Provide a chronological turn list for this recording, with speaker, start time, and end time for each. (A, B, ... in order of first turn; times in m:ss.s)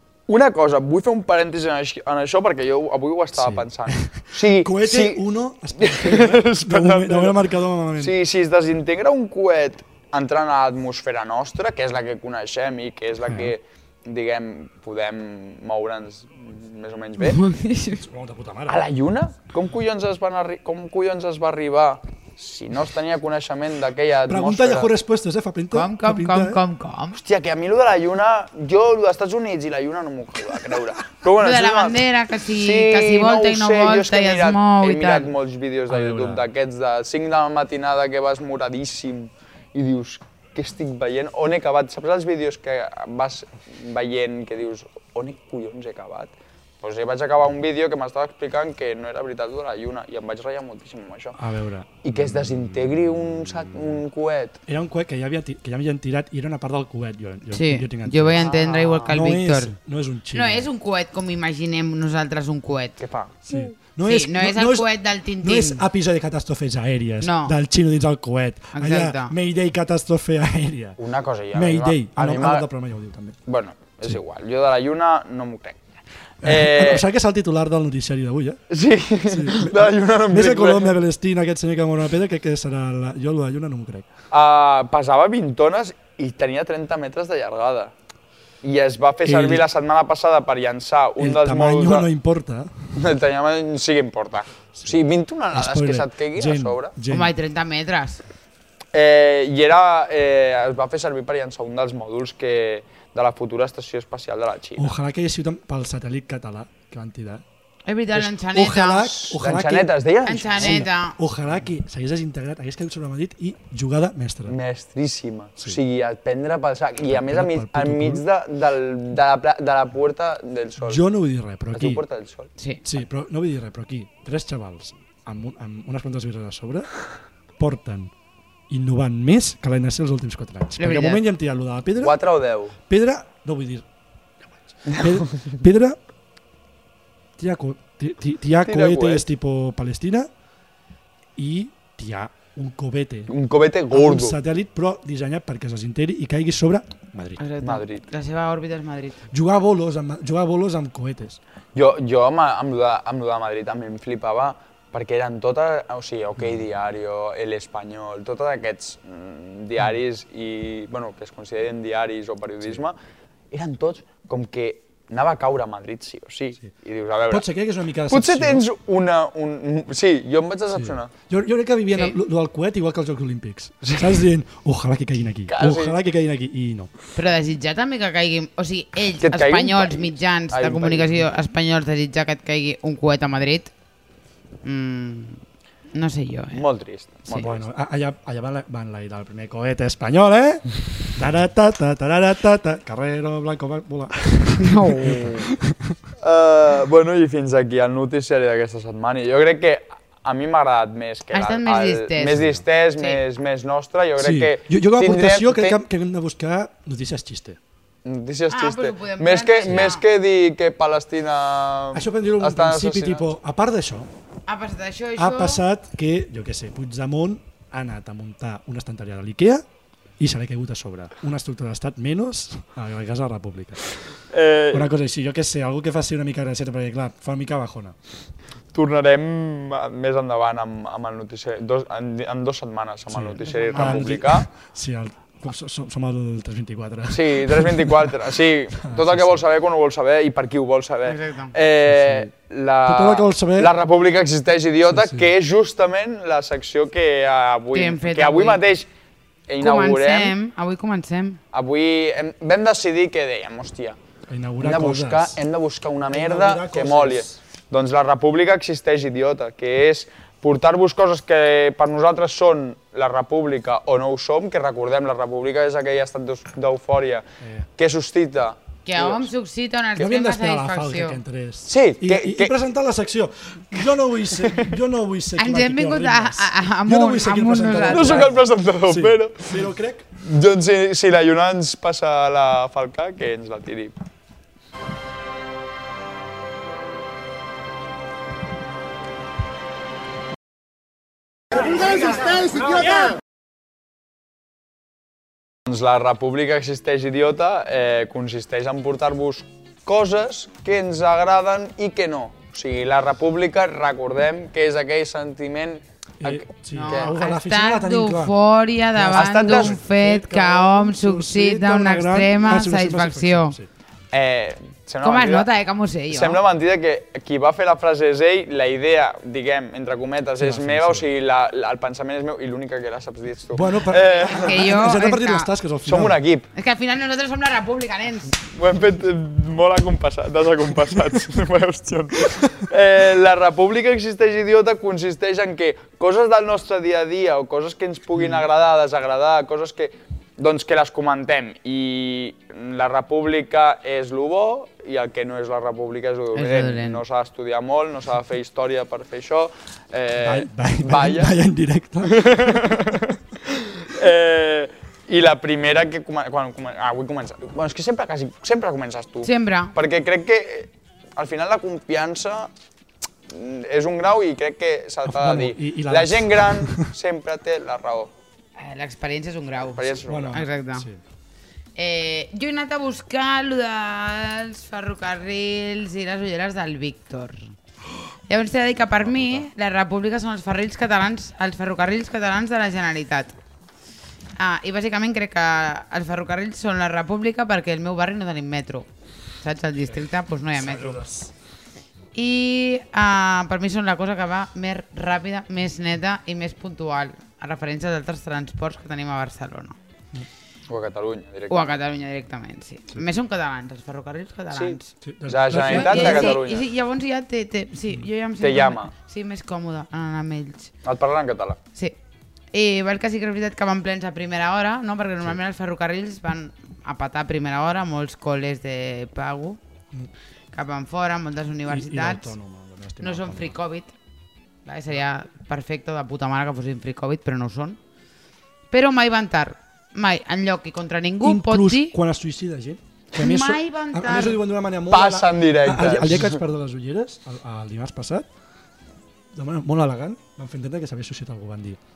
0:00.3-0:05.2 A
0:03.4-0:08.2 B
0:05.8-0:07.4 A
0:08.0-0:17.4 A
0:13.2-0:13.5 B
0:17.2-0:18.0 C
0:17.9-0:18.8 B
0:18.7-0:24.9 A
0:24.3-0:26.6 B
0:25.7-0:27.2 C
0:27.2-0:51.4 A
0:31.4-0:35.3 C
0:35.9-0:36.5 B
0:51.4-0:53.9 B
0:52.0-0:54.6 A
0:54.7-0:58.5 B
0:57.5-0:59.8 C
0:58.4-0:59.1 A
0:59.0-1:00.7 B
1:00.3-1:03.0 C
1:03.0-1:03.7 A
1:03.5-1:04.9 B
1:04.0-1:05.8 C
1:05.4-1:11.0 B
1:07.2-1:07.6 C
1:08.7-1:09.3 C
1:11.0-1:12.7 A
1:11.5-1:13.4 B
1:13.5-1:15.8 A
1:16.4-1:17.0 A
1:16.4-1:18.6 B
1:18.7-1:21.0 A
1:19.3-1:24.1 B
1:24.3-1:27.9 A
1:28.6-1:32.1 A
1:29.2-1:29.7 B
1:31.2-1:33.0 B
1:33.0-1:36.9 A
1:35.5-1:37.3 B
1:37.1-1:38.2 C
1:38.9-1:44.9 A
1:44.8-1:47.4 B
1:47.9-1:49.2 C
1:48.1-1:49.9 B
1:49.2-1:50.9 A
1:50.2-1:51.2 C
1:50.6-1:54.6 B
1:54.5-2:01.0 A
1:57.1-1:58.2 B
2:00.8-2:02.0 B
2:01.7-2:02.5 A
2:02.8-2:06.9 B
2:07.6-2:08.1 B
2:08.7-2:12.2 B
2:10.8-2:11.2 C
2:12.0-2:12.8 A
2:12.9-2:13.8 B
2:14.4-2:16.0 B
2:14.9-2:15.4 A
2:17.4-2:20.3 B
2:18.6-2:19.3 A
2:21.4-2:23.3 B
2:23.3-2:24.4 A
2:23.9-2:27.4 B
2:27.4-2:29.2 C
2:27.6-2:28.1 A
2:29.3-2:31.4 B
2:31.8-2:43.0 A
2:43.5-2:47.5 A
2:47.3-2:48.6 B
2:48.1-2:51.1 A
2:50.7-2:56.9 B
2:55.5-2:56.0 A
2:57.2-3:03.7 C
2:59.2-3:01.3 A
3:04.6-3:05.4 C
3:05.9-3:06.6 C
3:06.5-3:07.7 A
3:07.4-3:16.0 B
3:14.6-3:15.5 C
3:16.2-3:25.8 A
3:21.3-3:23.2 C
3:22.4-3:22.6 B
3:24.2-3:27.6 B
3:28.0-3:33.3 A
3:28.5-3:30.0 C
3:31.9-3:34.1 B
3:34.5-3:35.6 C
3:35.2-3:39.6 B
3:40.2-3:43.8 B
3:44.3-3:44.9 A
3:44.7-3:48.0 B
3:48.7-3:54.5 A
3:53.1-3:58.2 B
3:53.4-3:54.1 C
3:57.1-4:08.9 A
3:58.8-3:59.4 B
4:01.0-4:01.5 C
4:01.9-4:02.3 B
4:02.9-4:03.7 B
4:04.9-4:05.3 B
4:07.7-4:08.6 C
4:09.5-4:10.4 A
4:09.6-4:11.4 C
4:11.5-4:14.0 A
4:14.3-4:15.4 B
4:14.6-4:27.3 A
4:16.1-4:17.4 B
4:27.4-4:27.7 B
4:27.8-4:29.3 A
4:28.9-4:31.2 C
4:30.0-4:40.1 B
4:31.7-4:32.5 A
4:34.3-4:34.8 A
4:35.4-4:38.3 C
4:37.8-4:39.7 A
4:40.2-4:44.0 A
4:55.7-5:07.1 A
5:06.2-5:08.4 B
5:06.7-5:13.6 C
5:08.9-5:13.7 B
5:09.2-5:09.8 A
5:14.1-5:15.5 A
5:15.0-5:16.4 C
5:16.1-5:24.8 A
5:20.4-5:21.1 B
5:23.5-5:26.2 B
5:24.3-5:25.5 C
5:25.8-5:26.5 A
5:26.6-5:28.4 C
5:28.5-5:51.3 A
5:46.4-5:47.0 C
5:50.2-5:52.7 B
5:52.0-6:02.5 A
5:59.2-5:59.8 C
6:03.3-6:08.1 A
6:05.0-6:06.9 B
6:08.6-6:10.9 C
6:09.7-6:10.4 A
6:10.1-6:11.0 B
6:11.8-6:17.5 C
6:18.3-6:23.4 C
6:19.0-6:19.5 B
6:24.4-6:28.9 C
6:29.4-6:31.0 C
6:30.5-6:31.3 B
6:32.1-6:39.8 C
6:40.7-6:41.6 A
6:41.5-6:44.9 C
6:44.5-6:46.7 A
6:45.0-6:46.4 B
6:45.6-6:50.7 C
6:48.4-6:48.9 A
6:50.8-6:51.6 A
6:52.5-6:59.6 C
7:00.5-7:02.3 C
7:01.7-7:03.6 B
7:03.0-7:03.9 C
7:04.6-7:07.8 C
7:08.7-7:12.0 C
7:11.2-7:18.3 B
7:13.2-7:14.4 C
7:14.9-7:16.4 A
7:19.3-7:21.8 B